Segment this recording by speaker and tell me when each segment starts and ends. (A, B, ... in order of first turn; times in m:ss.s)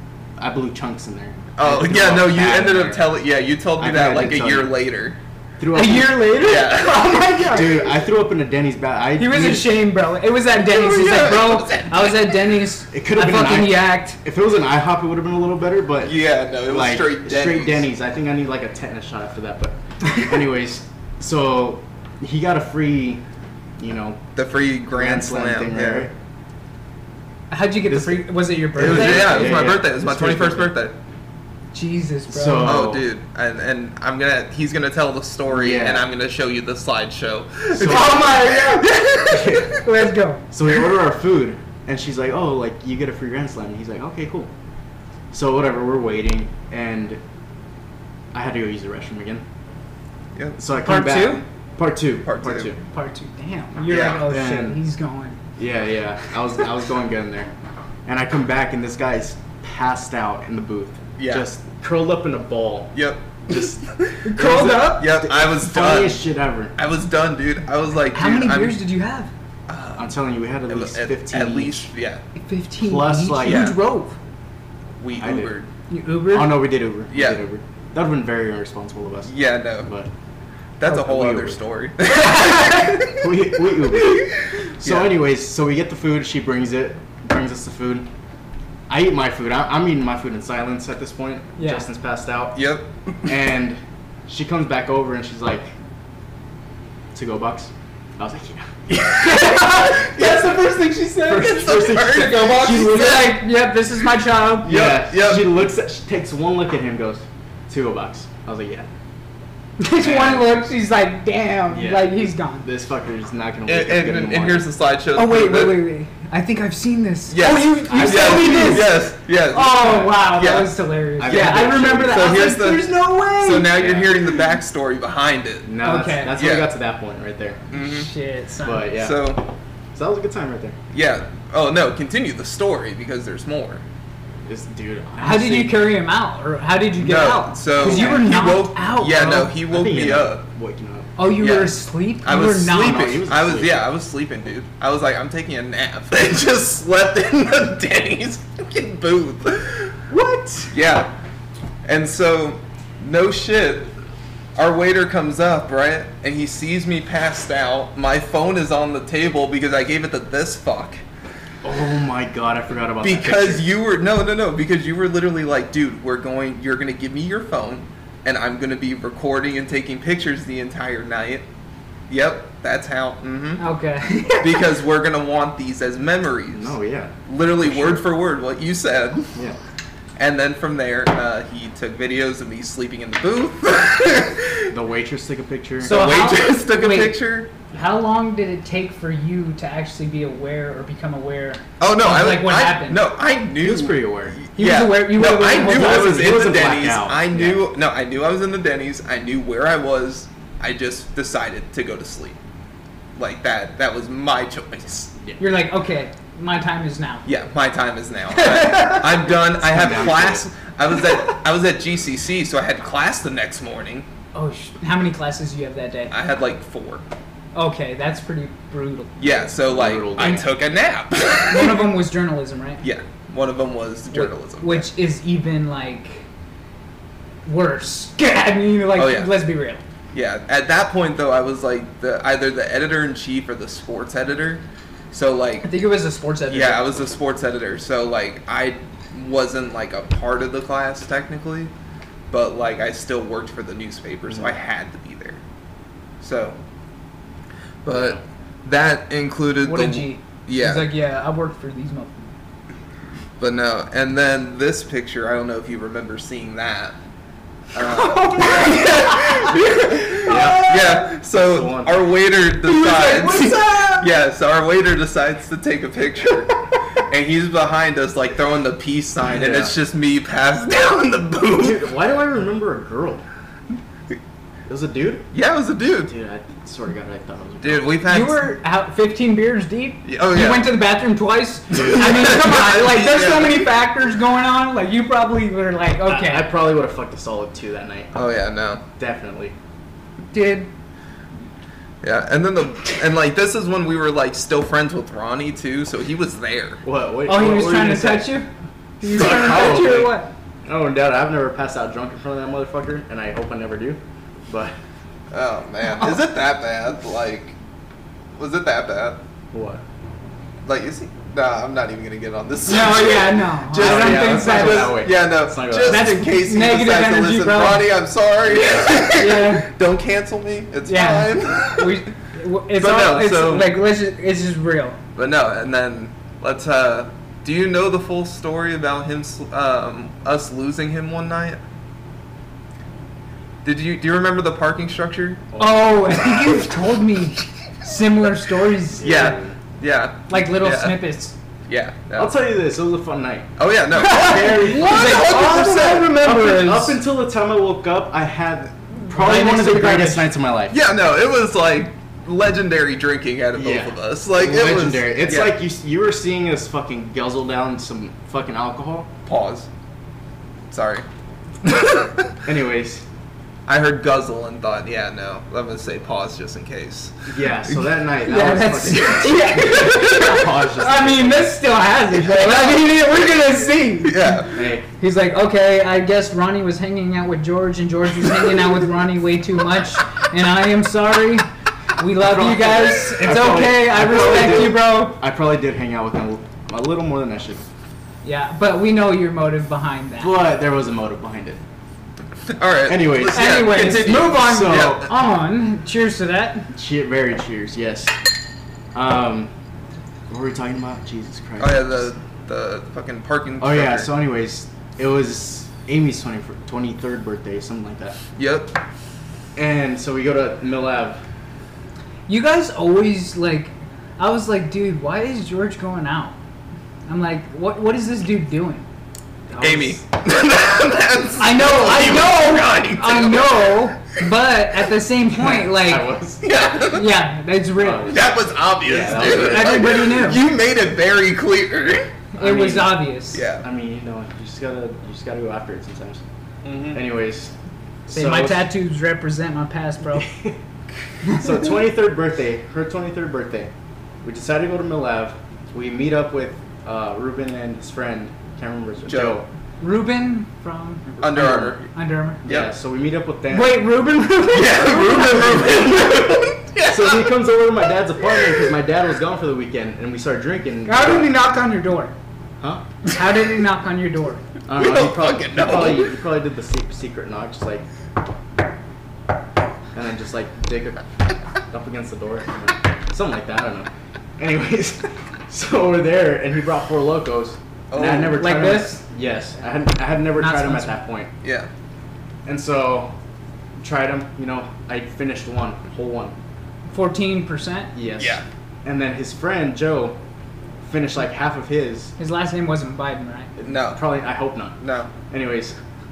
0:00.4-0:03.1 A
0:01.6-0:05.2 B
0:03.8-0:04.7 A
0:05.6-0:06.6 A
0:05.7-0:07.9 C
0:06.4-0:07.2 B
0:07.5-0:09.7 A
0:09.2-0:14.2 C
0:10.5-0:12.4 B
0:12.9-0:23.2 A
0:16.0-0:17.8 B
0:23.8-0:24.2 A
0:24.4-0:26.1 B
0:25.0-0:26.1 A
0:27.5-0:29.7 C
0:27.9-0:30.7 A
0:28.8-0:30.9 B
0:31.7-0:32.8 C
0:32.3-0:33.0 A
0:32.6-0:39.8 B
0:35.5-0:36.1 A
0:37.7-0:38.3 A
0:37.8-0:40.4 C
0:39.3-0:39.7 A
0:40.5-0:44.5 A
0:45.3-0:47.2 A
0:48.3-0:49.4 A
0:50.6-0:52.8 A
0:50.8-0:51.4 C
0:52.2-0:52.7 B
0:52.8-0:55.4 C
0:53.9-0:54.3 B
0:54.2-0:54.8 A
0:55.6-0:57.5 A
0:58.0-1:02.9 A
1:01.2-1:01.4 B
1:02.9-1:06.2 B
1:03.5-1:03.8 A
1:04.2-1:05.1 C
1:04.4-1:06.7 A
1:06.8-1:08.8 B
1:08.1-1:09.3 C
1:09.7-1:10.1 B
1:10.0-1:11.9 A
1:10.7-1:12.2 B
1:12.4-1:14.2 C
1:12.8-1:13.7 A
1:13.4-1:13.8 B
1:15.0-1:15.7 B
1:15.2-1:15.5 A
1:15.9-1:16.7 C
1:16.3-1:19.3 A
1:17.1-1:17.4 B
1:19.2-1:19.9 B
1:19.8-1:20.1 A
1:20.8-1:23.2 B
1:20.9-1:21.6 A
1:22.1-1:23.0 C
1:23.2-1:24.3 A
1:23.9-1:25.1 B
1:24.8-1:28.1 A
1:28.9-1:32.6 A
1:31.6-1:31.8 C
1:32.5-1:32.9 B
1:33.2-1:35.7 A
1:37.1-1:39.0 A
1:38.9-1:39.6 B
1:39.1-1:44.8 C
1:40.1-1:40.4 B
1:41.2-1:43.3 A
1:41.3-1:43.4 B
1:44.6-1:45.6 B
1:44.6-1:48.9 A
1:49.8-1:52.7 C
1:50.0-1:50.6 A
1:51.7-1:54.6 A
1:53.6-1:55.8 B
1:55.1-1:59.0 C
1:57.3-2:05.7 B
1:57.9-1:58.9 A
1:59.5-2:03.7 C
2:01.2-2:02.4 A
2:03.7-2:04.3 A
2:05.6-2:07.6 A
2:05.8-2:06.4 C
2:06.3-2:06.7 B
2:07.7-2:08.1 B
2:07.7-2:08.9 C
2:08.6-2:09.3 A
2:08.9-2:09.4 B
2:09.9-2:10.8 A
2:10.9-2:13.8 B
2:14.4-2:15.9 A
2:15.2-2:19.5 C
2:17.0-2:20.4 B
2:17.8-2:18.3 A
2:19.1-2:21.2 A
2:21.2-2:23.1 C
2:21.4-2:30.0 B
2:22.7-2:23.8 A
2:30.1-2:30.7 C
2:30.7-2:31.1 B
2:31.8-2:33.9 B
2:34.6-2:41.0 B
2:41.6-2:43.7 A
2:43.0-2:51.4 B
2:52.1-2:53.6 B
2:53.6-2:54.6 C
2:54.3-2:56.7 B
2:56.5-2:58.0 A
2:57.3-2:59.3 B
3:00.2-3:04.7 B
3:04.7-3:06.0 A
3:05.8-3:07.5 B
3:05.8-3:13.0 C
3:11.8-3:22.4 B
3:13.6-3:14.4 A
3:14.6-3:16.3 C
3:15.6-3:17.6 A
3:23.2-3:25.1 B
3:25.4-3:27.2 C
3:27.2-3:34.0 B
3:28.3-3:29.1 C
3:29.6-3:30.5 A
3:34.3-3:36.1 C
3:36.1-3:37.0 B
3:37.5-3:39.2 C
3:39.2-3:41.9 B
3:39.6-3:40.5 A
3:40.2-3:40.4 C
3:41.5-3:42.8 C
3:42.8-3:44.9 B
3:44.1-3:46.2 C
3:47.4-3:49.8 C
3:48.9-3:49.4 B
3:50.1-3:55.7 B
3:55.6-3:57.0 C
3:56.5-4:01.7 B
4:02.3-4:05.4 B
4:06.2-4:06.6 B
4:07.8-4:10.9 B
4:07.9-4:08.2 A
4:09.6-4:12.3 C
4:13.4-4:17.0 B
4:17.7-4:26.5 B
4:17.7-4:21.1 C
4:20.2-4:22.1 A
4:22.6-4:24.1 C
4:27.1-4:31.8 B
4:29.3-4:29.7 A
4:31.6-4:33.2 A
4:34.7-4:35.3 A
4:35.3-4:36.1 B
4:36.1-4:37.9 A
4:37.6-4:38.5 B
4:38.0-4:46.5 C
4:40.0-4:40.8 B
4:41.7-4:43.7 B
4:46.0-4:48.1 A
4:48.1-4:48.8 B
4:49.0-4:49.5 A
4:50.3-4:50.7 C
4:52.0-4:56.8 B
4:56.8-4:58.3 A
4:57.2-4:58.5 C
4:59.0-5:00.3 C
4:59.1-5:04.8 A
4:59.4-4:59.8 B
5:05.3-5:07.6 B
5:05.8-5:06.2 C
5:08.4-5:09.2 B
5:09.5-5:09.8 A
5:10.6-5:22.1 B
5:12.7-5:15.0 C
5:13.7-5:16.2 A
5:15.8-5:17.9 C
5:18.5-5:19.0 A
5:18.8-5:19.7 C
5:20.8-5:25.0 C
5:22.8-5:23.8 B
5:25.2-5:31.6 B
5:33.6-5:35.5 B
5:35.5-5:36.2 A
5:35.6-5:39.3 C
5:39.0-5:39.6 A
5:39.0-5:41.0 B
5:40.3-5:41.3 C
5:41.7-5:42.3 B
5:42.2-5:43.5 A
5:43.6-5:46.1 B
5:44.0-5:47.0 C
5:44.1-5:50.8 A
5:49.0-5:50.3 C
5:50.7-5:55.5 B
5:53.5-5:59.1 A
5:59.2-5:59.7 B
6:00.7-6:01.0 B
6:01.7-6:02.3 B
6:02.4-6:03.0 A
6:03.6-6:07.8 B
6:07.3-6:11.6 A
6:08.3-6:25.2 C
6:12.3-6:12.8 B
6:14.0-6:14.5 B
6:14.5-6:14.9 A
6:22.2-6:27.6 A
6:28.2-6:30.4 C
6:30.2-6:31.6 A
6:32.5-6:35.0 B
6:32.9-6:35.1 A
6:33.2-6:36.7 C
6:36.7-6:38.3 A
6:38.9-6:39.5 A
6:40.3-6:42.1 A
6:41.6-6:44.1 B
6:43.6-6:48.2 A
6:48.4-6:48.8 B
6:49.5-6:51.2 A
6:52.3-6:56.3 C
6:57.1-6:58.8 C
6:59.5-7:00.0 A
6:59.6-7:04.0 B
7:01.4-7:06.1 C
7:05.3-7:06.4 A
7:06.4-7:07.2 B
7:06.8-7:08.2 C
7:07.8-7:10.1 A
7:08.1-7:12.1 B
7:09.1-7:10.4 C
7:12.3-7:13.4 C
7:12.4-7:13.1 A
7:13.3-7:13.6 B
7:13.6-7:16.2 A
7:16.6-7:17.0 B
7:16.9-7:17.5 A
7:18.1-7:18.7 A
7:18.1-7:20.3 C
7:20.3-7:20.5 A
7:21.2-7:23.7 A
7:24.2-7:29.4 A
7:29.0-7:29.4 B
7:29.8-7:31.0 C
7:31.1-7:31.8 A
7:31.2-7:31.9 B
7:31.9-7:32.4 C
7:32.4-7:32.7 B
7:32.4-7:33.9 A
7:33.5-7:36.4 C
7:34.5-7:37.3 B
7:35.3-7:36.1 A
7:36.8-7:41.3 A
7:40.8-7:42.1 C
7:43.0-7:44.4 C
7:44.7-7:47.8 A
7:44.7-7:46.2 B
7:49.9-7:51.1 A
7:51.7-8:01.3 A
7:57.9-7:58.5 B
7:58.3-7:59.0 C
8:00.4-8:01.0 C
8:01.4-8:01.7 B
8:02.4-8:03.1 A
8:03.8-8:06.3 A
8:06.9-8:07.9 C
8:07.9-8:10.2 A
8:08.2-8:08.4 B
8:10.8-8:12.1 A
8:12.2-8:13.5 C
8:13.6-8:14.8 A
8:13.6-8:14.0 B
8:14.8-8:15.1 B
8:15.3-8:15.8 A